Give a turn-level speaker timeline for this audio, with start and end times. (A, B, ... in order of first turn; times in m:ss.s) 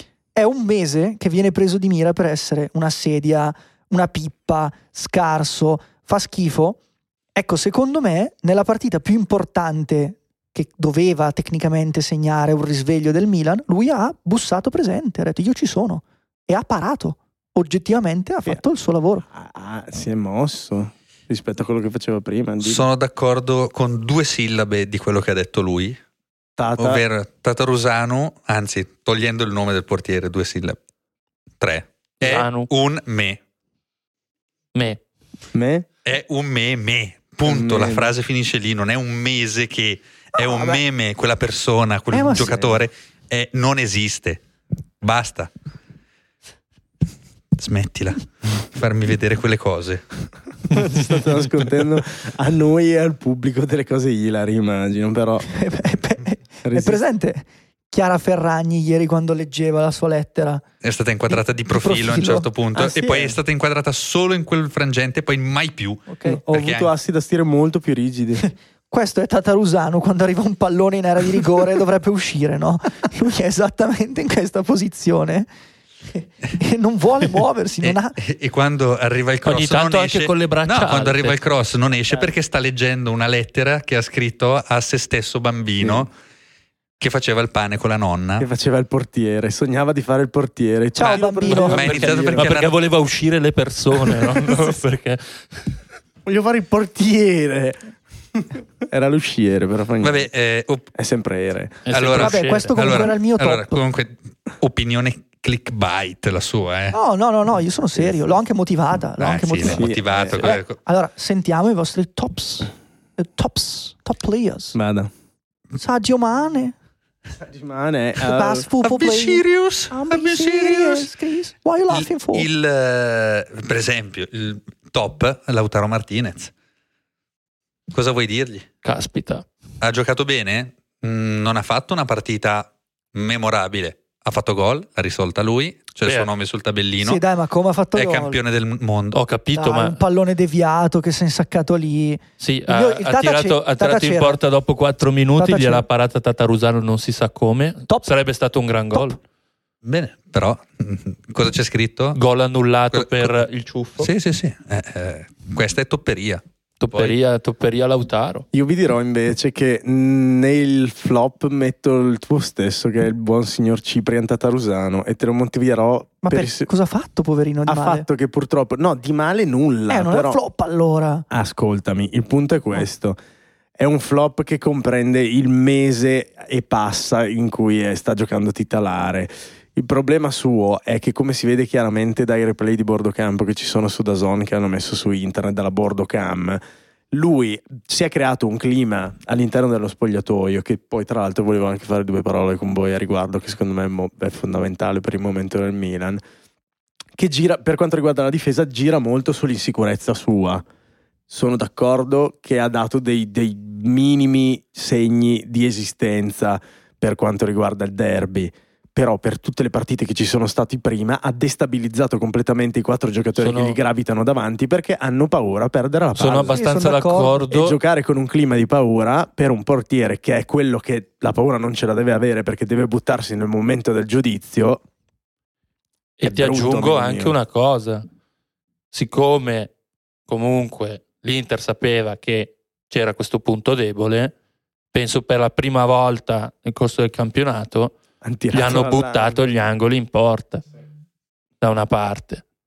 0:00.4-0:06.8 A
0:07.4-0:19.2 A
0:19.3-0:22.9 B
0:22.6-0:26.0 C
0:26.6-0:27.0 B
0:26.8-0:30.8 C
0:31.6-0:33.4 C
0:32.2-0:32.7 D
0:34.7-0:35.0 D
0:35.5-0:35.9 B
0:36.0-0:44.4 C
0:37.4-0:38.1 B
0:42.1-0:42.6 A
0:45.0-0:45.5 C
0:47.6-0:50.0 C
0:50.7-0:55.5 B
0:55.5-1:00.6 A
0:56.6-0:57.0 B
1:00.8-1:06.9 C
1:01.7-1:02.5 A
1:02.8-1:03.3 B
1:06.1-1:06.4 A
1:06.2-1:08.4 B
1:08.4-1:15.5 A
1:16.1-1:18.2 A
1:17.8-1:26.1 C
1:19.4-1:21.4 D
1:25.8-1:26.1 B
1:27.0-1:28.5 C
1:28.4-1:32.6 B
1:31.0-1:31.9 A
1:31.4-1:35.6 D
1:31.7-1:32.8 C
1:36.3-1:37.8 B
1:38.3-1:40.3 B
1:40.0-1:40.9 C
1:41.0-1:41.8 B
1:41.8-1:43.1 D
1:41.9-1:47.0 C
1:42.1-1:43.8 A
1:46.9-1:54.8 A
1:49.2-1:50.8 C
1:49.6-1:50.5 B
1:54.7-1:55.1 B
1:55.7-1:56.8 A
1:57.4-1:58.7 B
1:58.2-2:02.5 A
1:58.8-2:01.1 C
2:01.9-2:06.5 C
2:07.9-2:08.7 C
2:08.8-2:09.4 D
2:09.8-2:17.2 C
2:17.0-2:18.4 A
2:17.9-2:19.2 C
2:19.1-2:20.0 D
2:19.5-2:24.4 A
2:22.4-2:29.2 D
2:25.4-2:25.8 A
2:29.8-2:32.2 C
2:32.2-2:34.1 D
2:32.9-2:33.3 C
2:34.0-2:37.2 C
2:36.8-2:38.5 D
2:38.5-2:46.7 B
2:46.2-2:48.1 A
2:47.7-2:50.4 B
2:49.9-2:51.3 A
2:51.3-2:53.2 B
2:53.8-3:16.2 B
3:17.2-3:20.6 B
3:21.3-3:36.6 B
3:33.4-3:33.8 D
3:36.2-3:37.8 D
3:36.5-3:37.5 A
3:37.5-3:44.8 B
3:46.2-3:48.0 D
3:46.2-3:47.4 B
3:48.9-3:49.7 D
3:50.3-3:54.3 D
3:54.9-3:57.9 D
3:58.2-3:59.5 B
3:58.5-4:00.7 D
4:01.6-4:02.4 D